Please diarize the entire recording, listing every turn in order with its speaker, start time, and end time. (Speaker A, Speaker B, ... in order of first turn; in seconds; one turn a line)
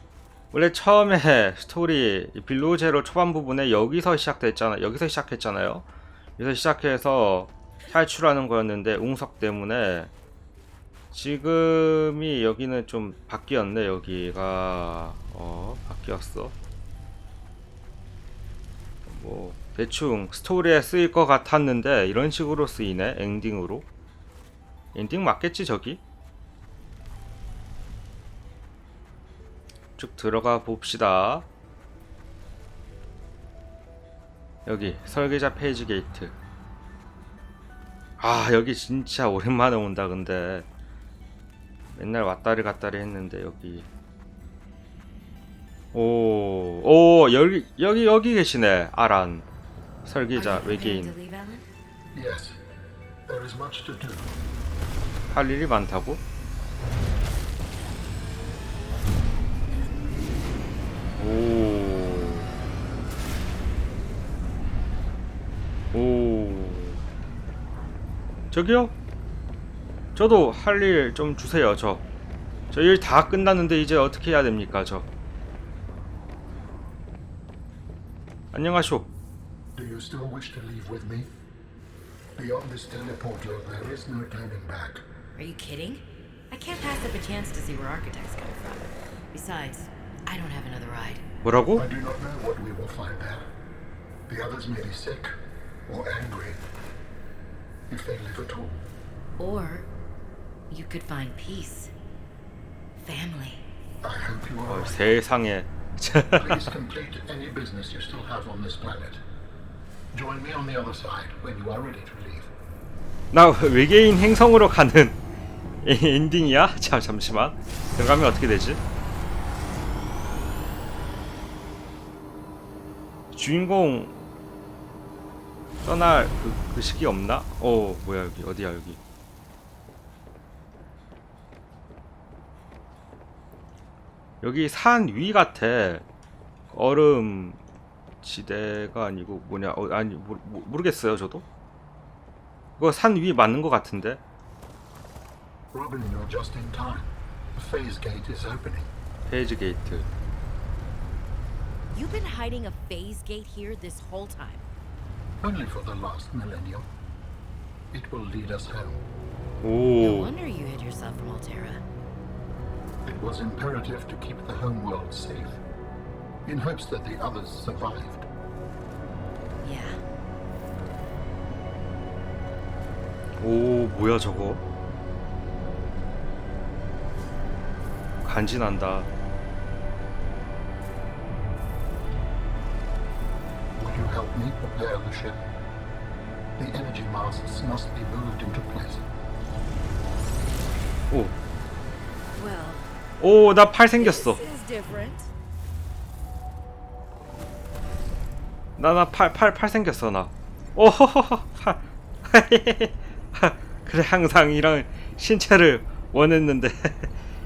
Speaker A: 0.5-5.8
Speaker A: 6.4-10.1
Speaker A: 11.1-16.5
Speaker A: 19.1-23.9
Speaker A: 24.9-26.0
Speaker A: 30.0-31.5
Speaker A: 34.6-36.3
Speaker A: 38.2-40.7
Speaker A: 41.9-43.9
Speaker A: 45.9-49.5
Speaker A: 50.0-51.1
Speaker B: 50.3-51.6
Speaker C: 52.1-52.6
Speaker C: 53.3-54.3
Speaker A: 55.3-56.2
Speaker A: 61.2-62.5
Speaker A: 65.9-67.0
Speaker A: 68.5-68.9
Speaker A: 70.2-72.0
Speaker A: 72.7-75.1
Speaker A: 78.5-79.1
Speaker C: 79.7-81.3
Speaker C: 82.4-85.0
Speaker B: 85.3-91.2
Speaker A: 91.4-91.9
Speaker C: 91.7-93.5
Speaker C: 94.3-95.3
Speaker C: 95.9-96.6
Speaker C: 97.9-98.8
Speaker B: 99.4-99.9
Speaker B: 100.7-101.9
Speaker B: 103.0-103.6
Speaker C: 104.0-105.2
Speaker A: 104.7-106.7
Speaker C: 106.3-109.2
Speaker C: 110.1-112.5
Speaker A: 113.3-115.2
Speaker A: 115.8-118.8
Speaker A: 123.3-124.3
Speaker A: 125.8-129.0
Speaker A: 134.4-136.0
Speaker A: 136.7-137.6
Speaker A: 138.2-141.4
Speaker A: 142.8-144.2
Speaker C: 145.7-148.9
Speaker A: 149.3-150.1
Speaker B: 151.9-154.6
Speaker C: 155.4-156.9
Speaker C: 157.9-159.0
Speaker A: 159.6-160.3
Speaker B: 160.0-161.8
Speaker C: 163.0-165.6
Speaker C: 166.4-168.3
Speaker B: 169.6-170.0
Speaker A: 173.4-174.6
Speaker A: 178.2-179.1
Speaker C: 183.8-185.4
Speaker C: 186.6-189.1
Speaker A: 191.1-191.3
Speaker B: 192.3-192.9
Speaker A: 193.2-194.4
Speaker B: 193.9-195.3
Speaker A: 198.8-207.1